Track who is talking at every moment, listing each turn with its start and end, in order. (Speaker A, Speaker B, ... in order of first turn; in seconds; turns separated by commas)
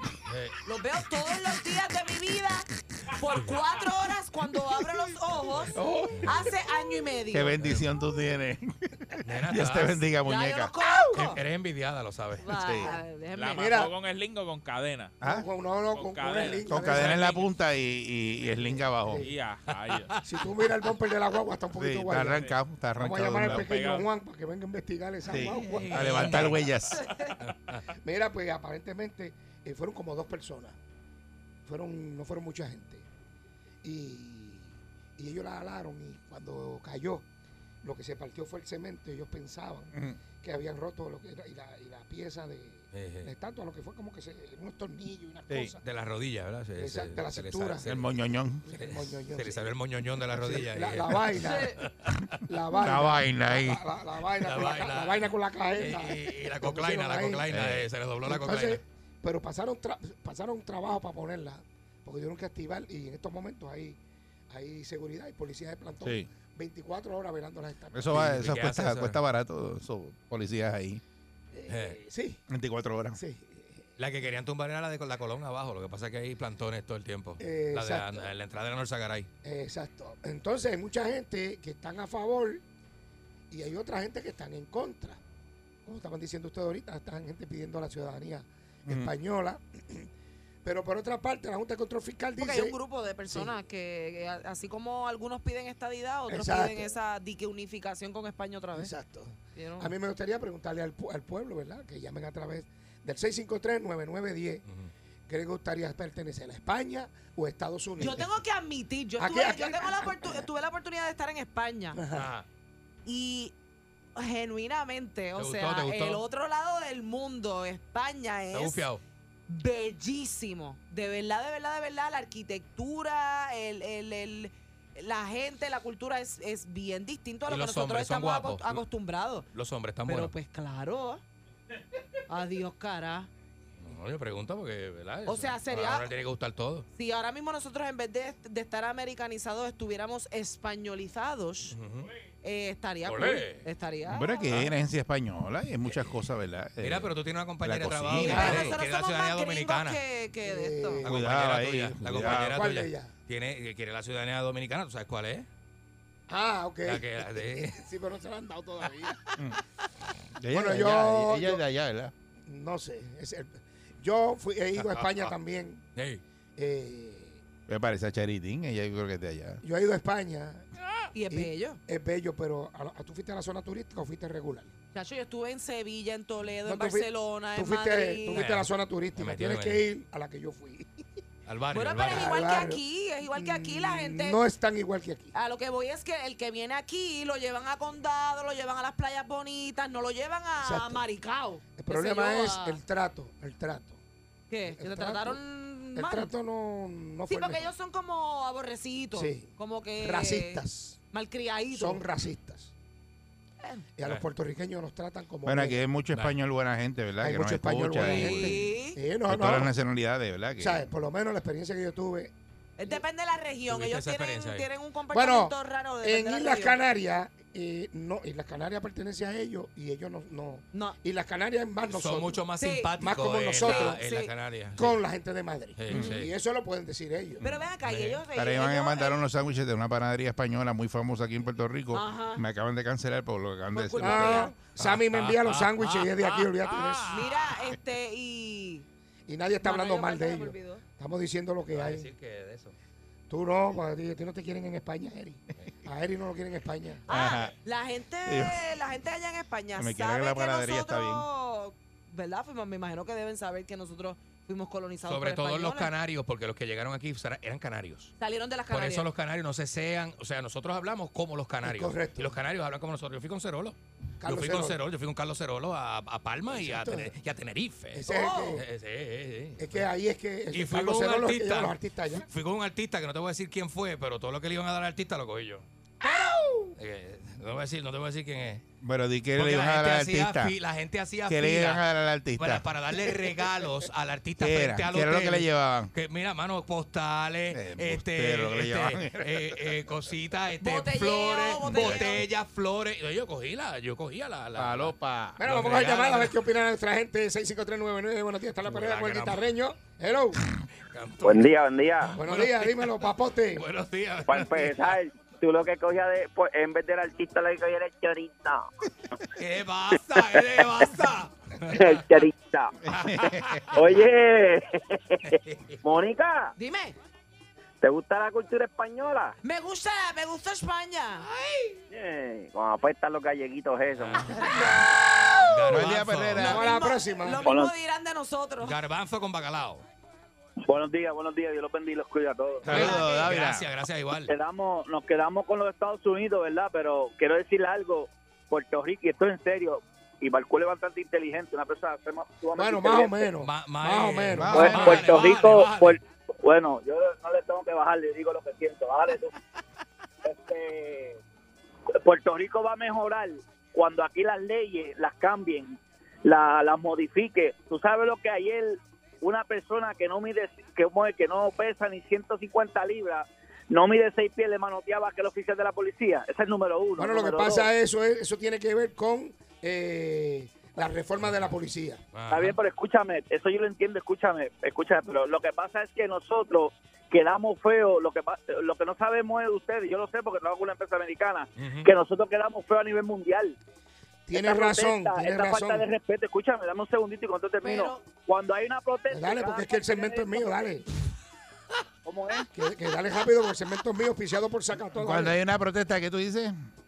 Speaker A: 0.3-0.6, Speaker B: 0.6-7.6, Speaker C: 5.7-6.5, Speaker D: 7.3-10.7, Speaker A: 9.2-10.0, Speaker B: 10.2-11.4, Speaker A: 11.1-12.5, Speaker B: 12.4-13.7, Speaker D: 12.6-12.9, Speaker E: 13.3-15.2, Speaker C: 13.6-13.9, Speaker D: 15.2-15.4, Speaker C: 15.2-17.4, Speaker E: 15.9-17.4, Speaker D: 16.7-19.3, Speaker C: 18.6-19.3, Speaker E: 19.2-20.2, Speaker A: 19.7-20.2, Speaker C: 20.2-26.5, Speaker D: 21.7-23.7, Speaker E: 23.3-24.1, Speaker D: 25.3-27.1, Speaker A: 25.7-26.7, Speaker B: 27.0-27.3, Speaker A: 27.4-27.9, Speaker C: 28.0-30.8, Speaker C: 31.6-33.0, Speaker C: 33.8-37.2, Speaker C: 37.8-45.8, Speaker D: 39.9-40.2, Speaker A: 42.9-43.3, Speaker A: 45.8-52.4, Speaker C: 46.8-47.9, Speaker D: 47.8-48.6, Speaker C: 48.6-49.7, Speaker C: 50.3-51.8, Speaker B: 51.4-51.8, Speaker C: 52.4-57.5, Speaker D: 52.7-53.8, Speaker A: 54.4-58.8, Speaker D: 57.5-57.9, Speaker C: 58.2-64.0, Speaker C: 64.5-68.4, Speaker D: 66.0-66.3, Speaker D: 67.9-71.0, Speaker A: 68.1-69.2, Speaker C: 71.5-72.4, Speaker A: 71.7-72.0, Speaker D: 72.5-73.2, Speaker C: 73.1-73.8, Speaker A: 74.0-79.3, Speaker C: 77.4-78.3, Speaker C: 79.4-82.6, Speaker C: 83.5-85.2, Speaker C: 85.8-90.1, Speaker D: 88.9-89.1, Speaker C: 90.6-92.8, Speaker B: 92.4-98.9, Speaker C: 93.3-93.5, Speaker C: 96.3-96.9, Speaker C: 98.7-104.6, Speaker B: 99.5-99.9, Speaker C: 105.3-108.3, Speaker B: 108.0-112.0, Speaker C: 109.2-110.5, Speaker C: 111.9-112.3, Speaker A: 112.1-112.5, Speaker B: 113.0-113.5, Speaker B: 114.2-118.8, Speaker A: 115.4-116.2, Speaker A: 118.5-119.0, Speaker B: 119.5-129.5, Speaker A: 127.5-128.8, Speaker A: 129.5-130.3, Speaker B: 130.1-131.2, Speaker B: 132.3-133.3, Speaker A: 133.8-136.8, Speaker B: 135.2-136.1, Speaker B: 136.9-141.8, Speaker A: 141.7-142.1, Speaker B: 142.4-144.5, Speaker A: 143.1-143.7, Speaker D: 144.1-148.7, Speaker A: 144.5-144.7, Speaker A: 145.8-146.2, Speaker A: 146.8-150.0, Speaker B: 148.2-151.0, Speaker C: 148.2-148.7, Speaker C: 150.4-151.2, Speaker A: 151.0-155.5, Speaker D: 151.0-152.6, Speaker C: 152.2-153.1, Speaker C: 156.3-159.3, Speaker A: 156.8-157.8, Speaker D: 160.3-162.1, Speaker C: 160.5-161.6, Speaker C: 162.4-165.8, Speaker A: 164.8-165.3, Speaker A: 165.9-166.2, Speaker C: 166.6-167.4, Speaker D: 167.7-169.6, Speaker C: 169.6-174.7, Speaker B: 171.1-171.8, Speaker B: 174.9-178.4, Speaker C: 176.6-181.0, Speaker A: 178.3-179.8, Speaker A: 181.4-182.3, Speaker B: 181.7-184.4, Speaker C: 182.1-182.8, Speaker C: 183.3-185.3, Speaker B: 185.3-192.8, Speaker C: 190.6-191.0, Speaker C: 191.8-194.0, Speaker B: 194.5-196.3, Speaker C: 194.7-195.4, Speaker C: 195.9-197.7, Speaker B: 197.3-202.0, Speaker C: 199.1-201.0, Speaker C: 201.7-202.7, Speaker B: 203.6-203.8, Speaker C: 204.0-205.8, Speaker D: 205.4-208.7, Speaker C: 207.2-209.7, Speaker B: 208.0-209.0, Speaker D: 209.3-210.9, Speaker C: 210.6-212.3, Speaker B: 212.8-216.8, Speaker A: 213.7-214.7, Speaker C: 215.1-222.4, Speaker A: 221.9-225.0, Speaker B: 222.6-222.9, Speaker C: 223.0-224.0, Speaker B: 223.6-224.3, Speaker C: 224.7-227.4, Speaker A: 225.8-226.3, Speaker B: 225.9-226.2, Speaker B: 227.4-229.2, Speaker A: 227.8-228.2, Speaker D: 228.3-234.5, Speaker B: 231.9-232.4, Speaker B: 233.7-234.6, Speaker C: 234.0-237.3, Speaker A: 234.8-237.6, Speaker B: 237.1-238.8, Speaker C: 239.3-242.1, Speaker B: 239.6-240.8, Speaker A: 241.7-242.7, Speaker C: 243.3-247.0, Speaker B: 247.1-255.9, Speaker D: 247.1-247.5, Speaker D: 248.2-248.8, Speaker D: 249.8-251.3, Speaker A: 255.0-258.1, Speaker B: 258.2-259.1, Speaker A: 258.7-269.9, Speaker C: 261.6-262.4, Speaker C: 264.2-264.8, Speaker C: 266.5-267.1, Speaker C: 267.9-268.6, Speaker B: 268.1-268.6, Speaker C: 269.6-272.3, Speaker A: 270.5-275.6, Speaker B: 276.0-276.4, Speaker C: 276.0-276.7, Speaker A: 276.8-278.6, Speaker D: 278.8-280.5, Speaker A: 279.4-296.4, Speaker D: 281.2-282.7, Speaker D: 284.4-285.9, Speaker D: 287.5-289.8, Speaker B: 290.6-292.2, Speaker D: 291.6-292.1, Speaker D: 294.6-295.4, Speaker C: 295.4-300.4, Speaker A: 298.6-299.4, Speaker A: 300.8-304.9, Speaker F: 301.2-302.1, Speaker C: 302.1-303.6, Speaker F: 304.3-308.6, Speaker A: 309.4-312.1, Speaker F: 311.8-312.7, Speaker D: 312.9-313.7, Speaker A: 312.9-313.8, Speaker F: 313.7-314.6, Speaker A: 315.3-315.8, Speaker F: 315.8-316.5, Speaker B: 316.6-316.9, Speaker F: 317.8-319.3, Speaker B: 319.4-321.3, Speaker F: 321.9-324.3, Speaker A: 323.9-324.8, Speaker B: 324.4-325.8, Speaker A: 325.4-326.6, Speaker D: 325.7-326.8, Speaker B: 326.4-328.8, Speaker C: 326.4-327.4, Speaker F: 327.4-327.7, Speaker A: 328.6-329.8, Speaker F: 330.6-332.9, Speaker D: 332.6-333.7, Speaker A: 332.6-334.3, Speaker B: 332.7-333.3, Speaker F: 334.3-343.3, Speaker C: 342.6-345.1, Speaker A: 343.4-346.0, Speaker D: 344.3-345.2, Speaker F: 344.5-349.4, Speaker F: 350.2-351.2, Speaker F: 352.0-367.7, Speaker C: 367.0-372.0, Speaker A: 371.2-371.5, Speaker A: 372.1-372.6, Speaker F: 372.3-383.6, Speaker A: 381.6-381.9, Speaker C: 384.3-385.9, Speaker F: 384.3-390.6, Speaker B: 387.6-388.1, Speaker C: 389.1-390.8, Speaker F: 392.0-392.5, Speaker C: 392.5-395.4, Speaker D: 395.0-396.5